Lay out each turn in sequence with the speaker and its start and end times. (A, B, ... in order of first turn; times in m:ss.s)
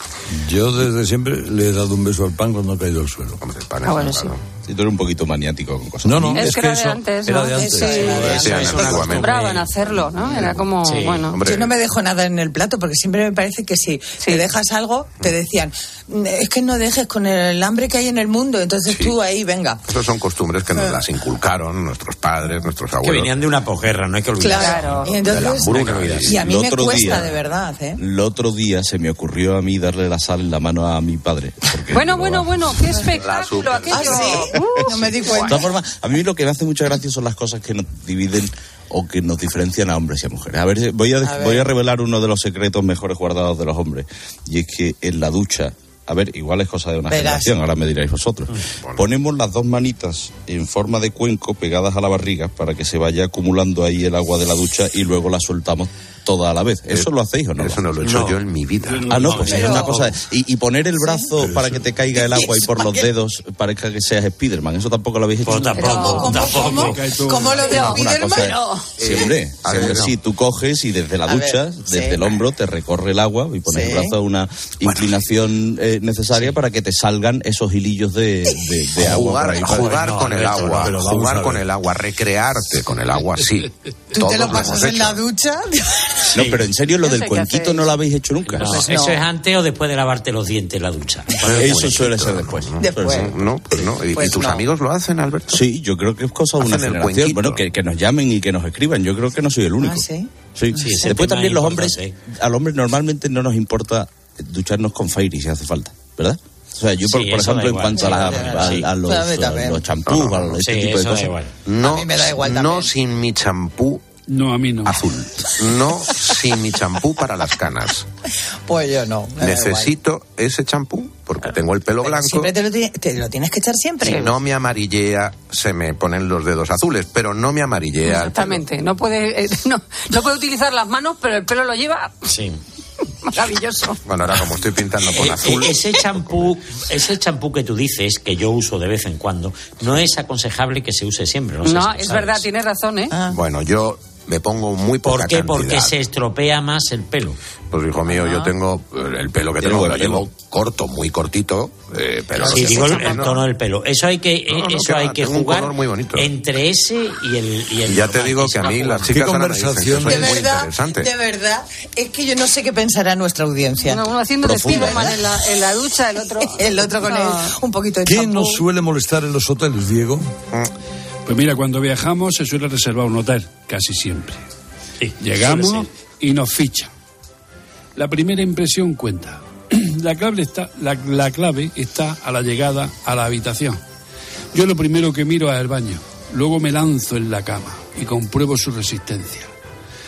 0:00.3-0:03.4 A
0:03.4-0:04.4 B
0:03.8-0:04.3 C
0:04.7-0:06.6 D
0:06.0-0:09.2 A
0:06.3-0:11.4 C
0:07.5-0:09.3 E
0:08.3-0:09.4 B
0:10.8-0:11.3 F
0:11.3-0:11.8 B
0:11.4-0:19.8 E
0:18.9-0:19.2 B
0:19.9-0:23.5 B
0:20.7-0:21.0 E
0:23.0-0:25.1 F
0:24.4-0:28.0 E
0:24.5-0:25.2 C
0:25.1-0:26.4 B
0:25.7-0:26.2 F
0:25.9-0:27.4 D
0:28.0-0:32.8 D
0:31.9-0:35.6 C
0:33.1-0:34.4 B
0:33.9-0:35.7 E
0:35.4-0:57.9 D
0:41.2-0:41.7 E
0:47.1-0:47.6 E
0:56.9-0:59.5 B
0:58.0-0:58.4 F
0:59.0-1:06.2 D
0:59.1-0:59.8 F
0:59.4-1:00.0 E
1:01.0-1:01.3 E
1:01.4-1:01.9 A
1:02.1-1:03.1 E
1:05.4-1:07.1 F
1:05.8-1:06.3 C
1:06.0-1:08.6 E
1:06.2-1:07.8 G
1:07.6-1:08.9 C
1:07.8-1:20.0 D
1:09.0-1:10.2 B
1:11.3-1:12.4 E
1:13.7-1:14.2 E
1:19.0-1:25.2 B
1:19.7-1:20.9 F
1:20.7-1:21.6 A
1:24.1-1:26.0 E
1:26.3-1:28.9 D
1:26.4-1:26.6 F
1:27.0-1:27.9 C
1:28.5-1:31.9 F
1:28.7-1:29.3 E
1:31.4-1:35.6 B
1:31.5-1:33.4 D
1:32.8-1:33.3 E
1:34.1-1:34.7 E
1:35.5-1:51.3 D
1:36.6-1:37.6 B
1:39.8-1:41.2 E
1:40.8-1:42.2 F
1:47.0-1:48.9 F
1:47.9-1:49.9 E
1:50.1-1:50.6 B
1:50.6-1:51.5 F
1:51.7-1:54.0 B
1:51.8-1:52.9 E
1:54.3-1:55.0 G
1:54.8-1:58.1 B
1:58.7-1:59.9 E
1:59.4-2:02.5 B
2:02.0-2:04.3 E
2:04.0-2:08.6 B
2:08.0-2:12.2 C
2:12.3-2:12.6 F
2:13.3-2:14.0 C
2:14.0-2:16.5 B
2:15.1-2:22.5 F
2:21.6-2:23.2 C
2:23.3-2:26.0 B
2:25.0-2:27.4 F
2:27.7-2:33.4 B
2:28.1-2:28.5 E
2:29.6-2:30.3 D
2:32.4-2:33.3 E
2:32.4-2:39.1 F
2:34.5-2:36.3 B
2:37.8-2:41.1 B
2:39.0-2:40.5 A
2:39.9-2:44.0 E
2:43.9-2:47.5 C
2:44.4-2:45.3 D
2:44.7-2:45.1 E
2:46.4-2:48.6 E
2:48.0-2:50.3 A
2:51.3-2:54.4 G
2:55.0-2:55.9 F
2:55.2-2:56.9 G
2:58.0-3:03.8 G
3:04.5-3:09.5 G